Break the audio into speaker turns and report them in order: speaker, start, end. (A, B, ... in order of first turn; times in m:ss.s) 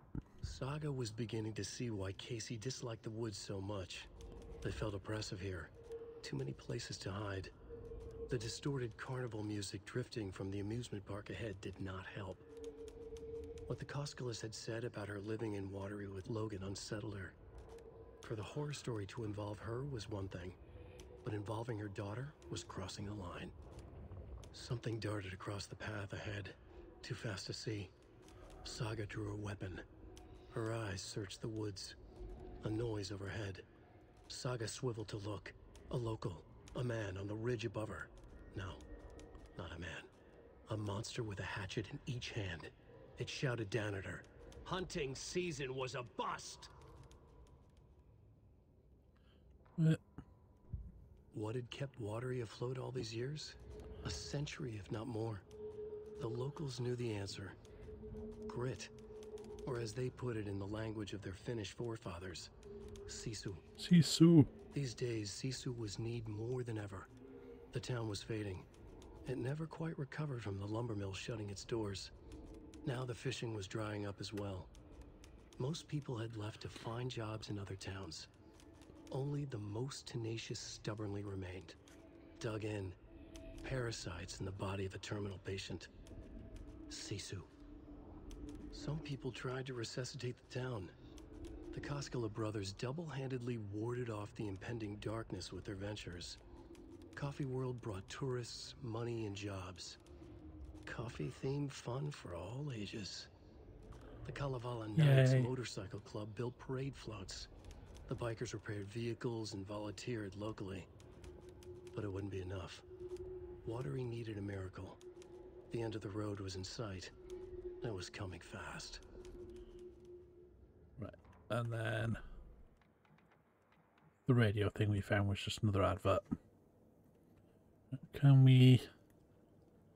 0:00.4-0:04.1 A
0:04.6-0:07.5 A
0:08.3-0:12.4 A
0:13.7-0:17.4 A
0:18.2-0:20.6 A
0:21.2-0:23.5 A
0:24.5-0:27.9 A
0:28.6-0:29.8 A
0:30.5-0:32.0 A
0:32.6-0:33.7 A
0:34.3-0:38.8 A
0:39.6-0:40.1 A
0:40.7-0:46.7 A
0:51.3-0:55.4 A
0:56.2-0:57.6 A
0:58.5-0:58.9 A
0:59.6-1:02.5 A
1:03.1-1:03.7 A
1:03.8-1:04.5 B
1:04.7-1:07.1 A
1:07.7-1:08.7 A
1:09.3-1:12.1 A
1:12.8-1:14.7 A
1:15.6-1:18.3 A
1:19.1-1:21.8 A
1:22.4-1:23.0 A
1:23.6-1:25.9 A
1:26.9-1:27.5 A
1:28.7-1:31.0 A
1:31.7-1:36.4 A
1:37.2-1:40.0 A
1:40.9-1:43.3 A
1:44.2-1:47.5 A
1:45.0-1:45.5 B
1:48.1-1:50.9 A
1:51.9-1:52.8 A
1:53.6-1:55.0 A
1:55.7-1:57.1 A
1:57.8-1:59.0 A
2:01.0-2:02.2 B
2:04.3-2:06.3 B
2:07.9-2:08.9 B